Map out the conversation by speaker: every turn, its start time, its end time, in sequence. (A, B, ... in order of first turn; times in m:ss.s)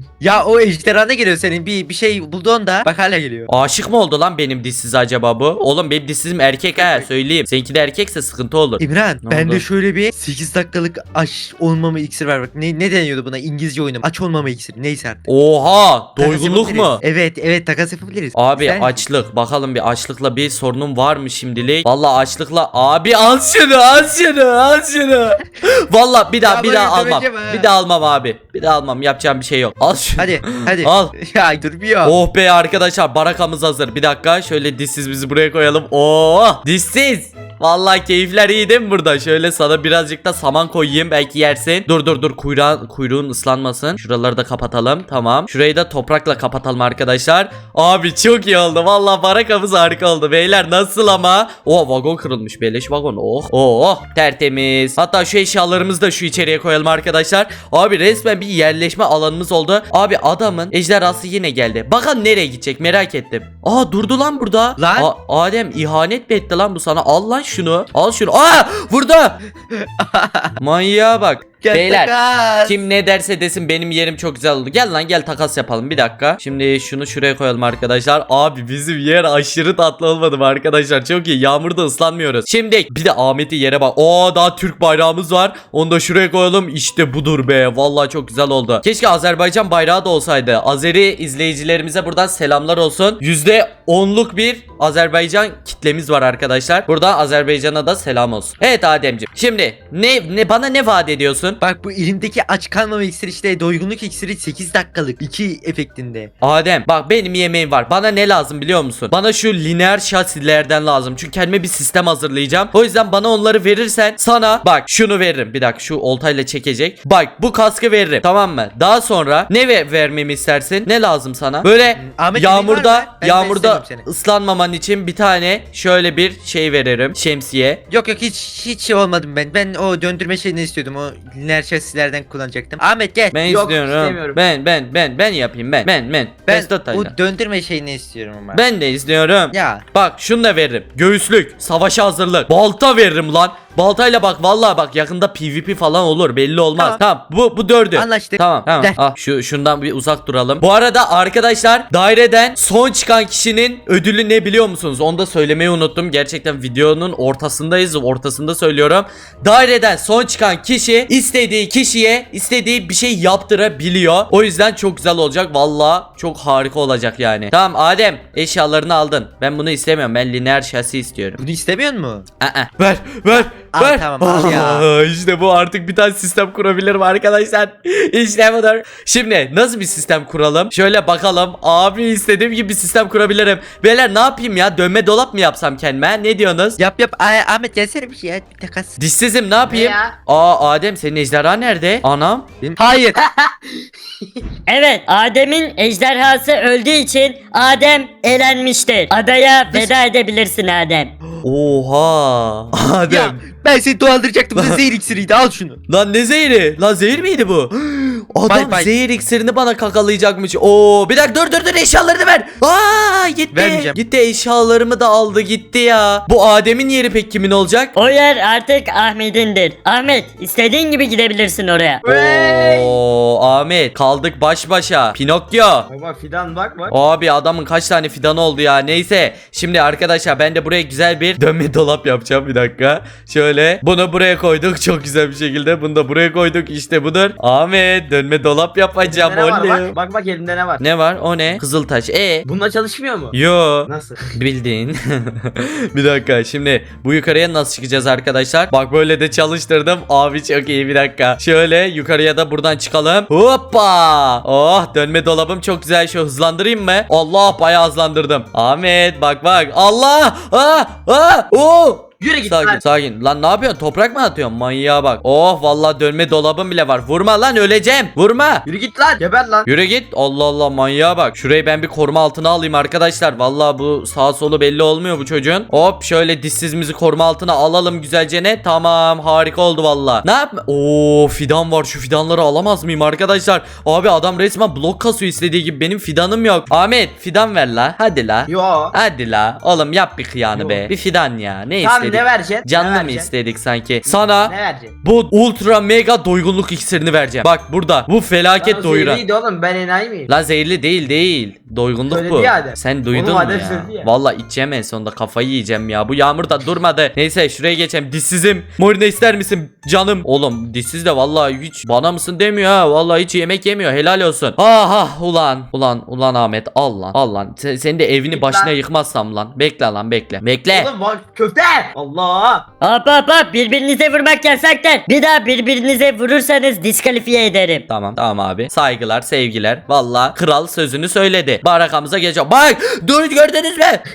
0:00.2-0:03.5 A
0:03.5-0:09.6 B
0:06.8-0:07.1 A
0:08.8-0:15.2 A
0:15.3-0:17.0 B
0:16.2-0:19.0 A
0:18.4-0:31.1 B
0:26.4-0:27.7 A
0:30.2-0:32.2 A
0:32.0-1:09.4 B
1:04.8-1:05.1 A
1:09.7-1:10.6 A
1:10.6-1:12.1 B
1:11.6-1:12.8 A
1:12.6-1:41.6 B
1:41.6-1:46.3 A
1:46.4-2:07.8 B
2:02.0-2:04.0 A
2:07.9-2:13.3 A
2:13.3-2:17.1 B
2:13.5-2:14.4 C
2:16.5-2:18.6 A
2:18.5-2:51.4 B
2:19.5-2:19.8 A
2:26.8-2:27.0 A
2:28.0-2:29.0 A
2:51.4-2:52.2 A
2:52.4-3:06.8 B
2:53.3-2:54.9 A
3:06.8-3:09.0 A
3:09.0-3:12.5 B
3:09.7-3:10.2 C
3:12.6-3:13.2 A
3:13.2-3:14.2 C
3:14.7-3:21.1 D
3:21.4-3:23.4 B
3:23.1-3:25.8 A
3:25.9-3:37.9 B
3:28.5-3:28.9 A
3:33.5-3:34.0 A
3:38.0-3:42.0 D
3:42.0-3:43.0 C
3:42.0-3:45.9 B
3:45.9-3:46.9 C
3:46.9-4:00.0 B
3:59.0-4:00.8 C
4:00.8-4:02.4 B
4:02.5-4:03.4 C
4:03.3-4:28.7 B
4:03.9-4:04.2 C
4:22.2-4:22.8 C
4:28.7-4:29.7 C
4:29.7-4:59.2 B
4:48.5-4:49.0 C
4:50.5-4:50.9 C
4:51.8-4:53.3 C
4:54.1-4:54.9 C
4:58.6-5:00.3 C
5:00.3-5:20.9 B
5:02.1-5:04.1 C
5:18.3-5:18.7 C
5:20.7-5:22.6 C
5:22.8-5:27.8 D
5:27.9-5:34.0 B